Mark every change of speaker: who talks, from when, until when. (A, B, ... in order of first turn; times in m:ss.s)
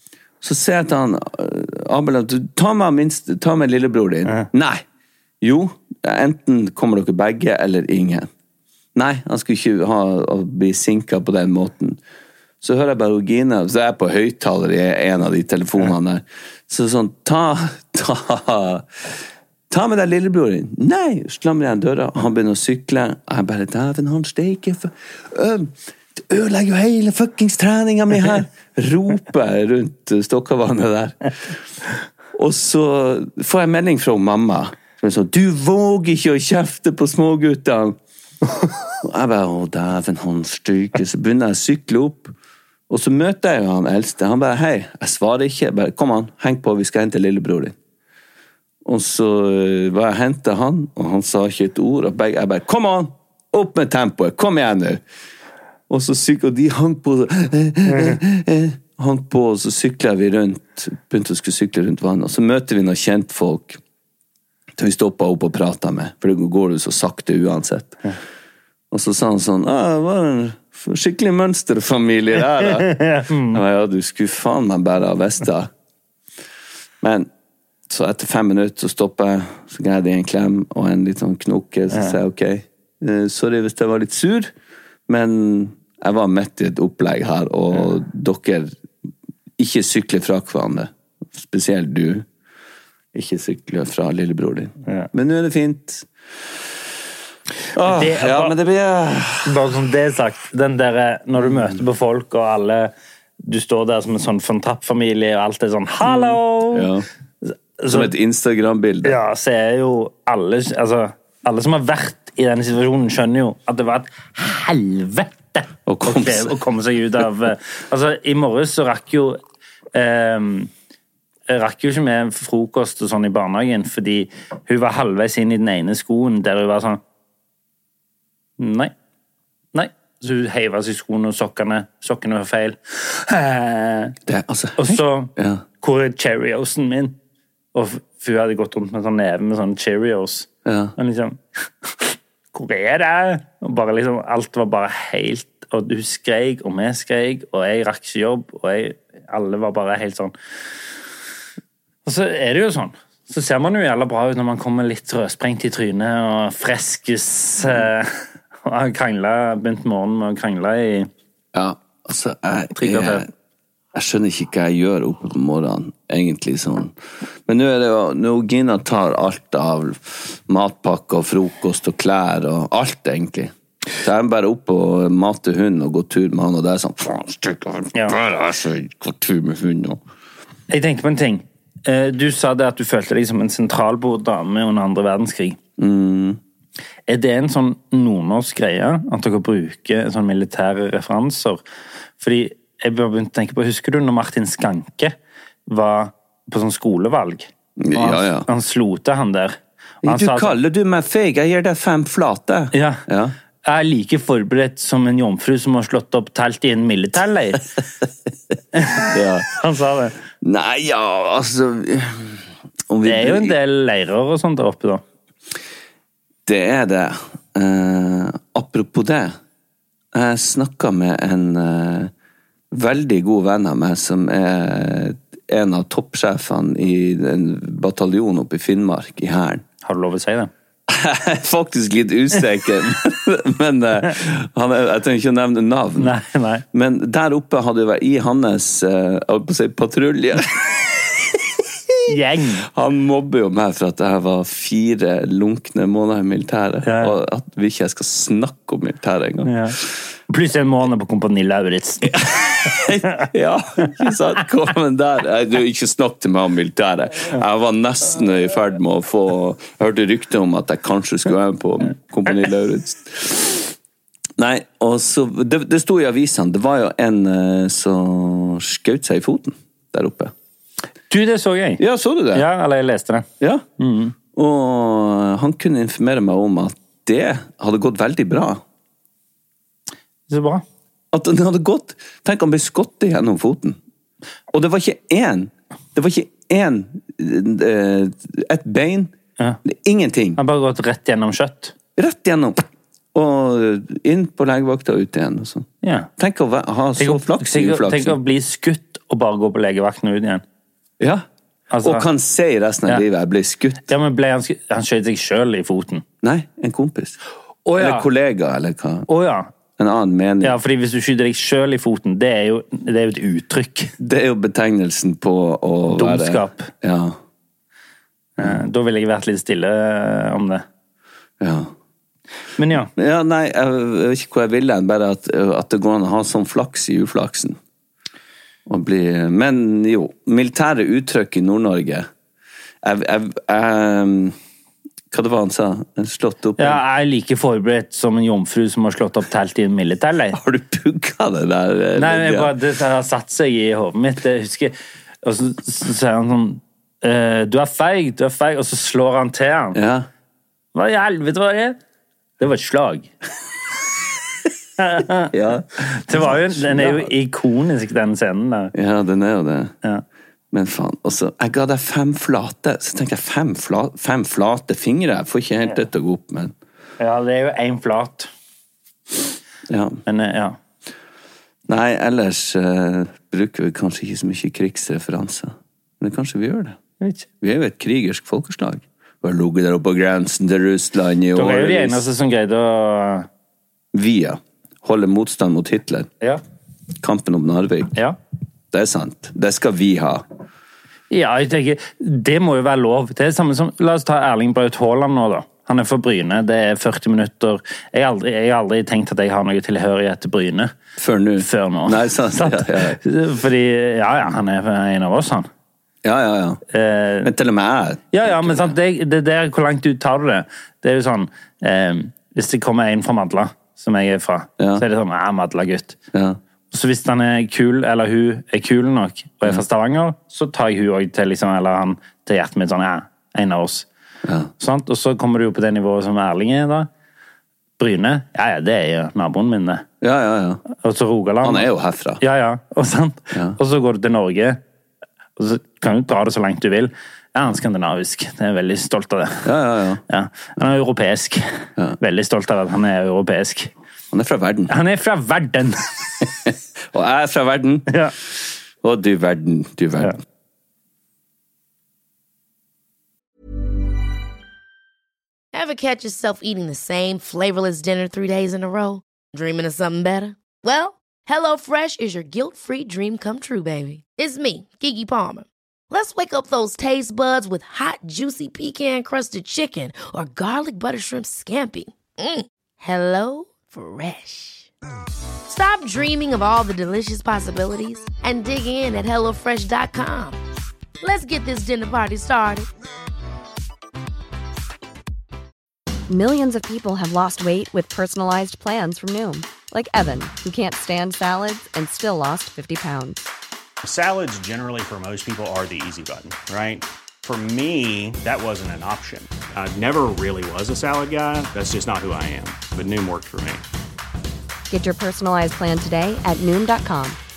0:00.4-0:04.8 A
0:05.4-0:08.3 A
0:08.9-0:12.0 A
0:12.6-0:19.1 A
0:19.7-0:31.6 A
0:32.3-0:38.0 A
0:39.0-0:42.3 A
0:42.9-0:47.7 A
0:48.8-0:55.0 A
0:55.9-1:03.8 A
1:04.8-1:08.0 A
1:08.9-1:15.7 A
1:12.8-1:13.6 B
1:17.0-1:17.3 A
1:17.9-1:24.5 A
1:21.9-1:22.2 B
1:25.1-1:28.7 A
1:29.6-1:32.3 A
1:33.1-1:36.1 A
1:37.7-1:39.7 A
1:37.8-1:38.6 B
1:39.4-1:46.9 B
1:46.0-1:47.0 A
1:47.4-1:48.1 B
1:47.9-1:49.2 A
1:49.0-1:59.4 B
1:55.9-1:56.6 A
1:59.9-2:00.7 B
2:01.5-2:07.0 B
2:08.6-2:08.9 B
2:09.7-2:14.1 B
2:14.2-2:15.6 A
2:14.8-2:17.1 B
2:17.7-2:30.3 B
2:20.6-2:20.9 A
2:32.0-2:41.1 B
2:41.5-2:43.3 A
2:42.8-2:43.2 B
2:43.9-2:46.9 A
2:47.5-3:00.0 A
3:00.7-3:05.6 B
3:05.8-3:06.4 A
3:07.1-3:11.6 B
3:12.2-3:15.1 B
3:15.7-3:20.6 B
3:17.8-3:18.5 A
3:20.0-3:23.3 A
3:22.7-3:23.0 B
3:23.6-3:27.7 B
3:28.7-3:30.2 B
3:29.0-3:29.5 A
3:30.4-3:33.6 A
3:33.0-3:35.0 B
3:36.4-3:39.3 A
3:40.1-3:42.1 A
3:42.7-3:49.6 A
3:49.8-3:50.5 B
3:50.9-3:56.1 A
3:56.0-3:56.6 B
3:56.7-4:01.4 A
4:02.1-4:02.6 B
4:02.6-4:09.8 A
4:06.8-4:07.2 B
4:09.4-4:09.8 B
4:10.3-4:12.2 B
4:12.0-4:23.7 A
4:24.4-4:30.3 A
4:31.1-4:31.8 B
4:31.8-4:32.4 A
4:32.3-4:33.3 B
4:33.4-4:33.6 A
4:33.8-4:34.1 B
4:34.3-4:38.6 A
4:40.3-4:40.6 B
4:41.1-4:43.8 A
4:44.5-4:49.1 A
4:49.6-4:50.4 A
4:50.4-4:51.7 B
4:52.0-4:58.2 A
4:55.8-4:56.1 B
4:57.0-5:00.4 B
5:01.0-5:01.2 A
5:01.7-5:02.0 B
5:01.8-5:03.9 A
5:03.9-5:06.0 B
5:06.2-5:07.2 A
5:07.6-5:08.1 B
5:07.8-5:09.1 A
5:09.1-5:09.5 B
5:09.8-5:10.6 A
5:10.4-5:13.9 B
5:14.0-5:17.2 A
5:15.9-5:16.7 B
5:18.4-5:20.6 B
5:21.4-5:21.7 A
5:22.6-5:22.9 B
5:22.9-5:27.6 A
5:28.6-5:32.1 A
5:32.8-5:34.4 A
5:35.1-5:36.8 A
5:36.6-5:40.4 B
5:40.3-5:42.6 A
5:42.0-5:49.8 B
5:49.7-5:50.1 A
5:50.7-5:51.8 B
5:52.4-5:53.1 B
5:54.8-5:55.3 B
5:55.3-5:57.1 A
5:56.0-5:58.7 B
5:58.7-5:59.7 A
6:00.5-6:06.5 A
6:07.0-6:08.3 B
6:09.7-6:10.0 A
6:10.0-6:10.6 B
6:11.7-6:16.8 A
6:17.0-6:17.3 B
6:17.4-6:22.0 A
6:21.3-6:23.3 B
6:23.9-6:26.1 A
6:27.0-6:27.9 A
6:28.7-6:30.2 A
6:31.1-6:40.7 B
6:41.0-6:43.0 A
6:41.4-6:45.5 B
6:46.0-6:46.6 A
6:46.7-6:47.3 B
6:47.2-6:48.7 A
6:48.1-6:56.0 B
6:54.6-6:54.8 A
6:56.1-6:56.4 A
6:56.7-7:03.9 B
7:04.2-7:04.5 A
7:04.6-7:06.9 B
7:07.8-7:09.8 B
7:10.0-7:10.6 A
7:10.7-7:14.6 B
7:11.4-7:12.2 A
7:13.3-7:13.6 A
7:15.4-7:19.5 B
7:19.4-7:20.0 A
7:20.1-7:21.4 B
7:22.0-7:23.7 B
7:24.1-7:24.7 A
7:24.7-7:25.9 B
7:26.4-7:27.9 A
7:27.9-7:28.1 B
7:28.8-7:30.2 A
7:35.5-7:54.7 C
7:55.5-8:00.4 C
8:01.0-8:02.7 C
8:06.1-8:13.2 D
8:13.8-8:23.6 E
8:24.7-8:27.2 D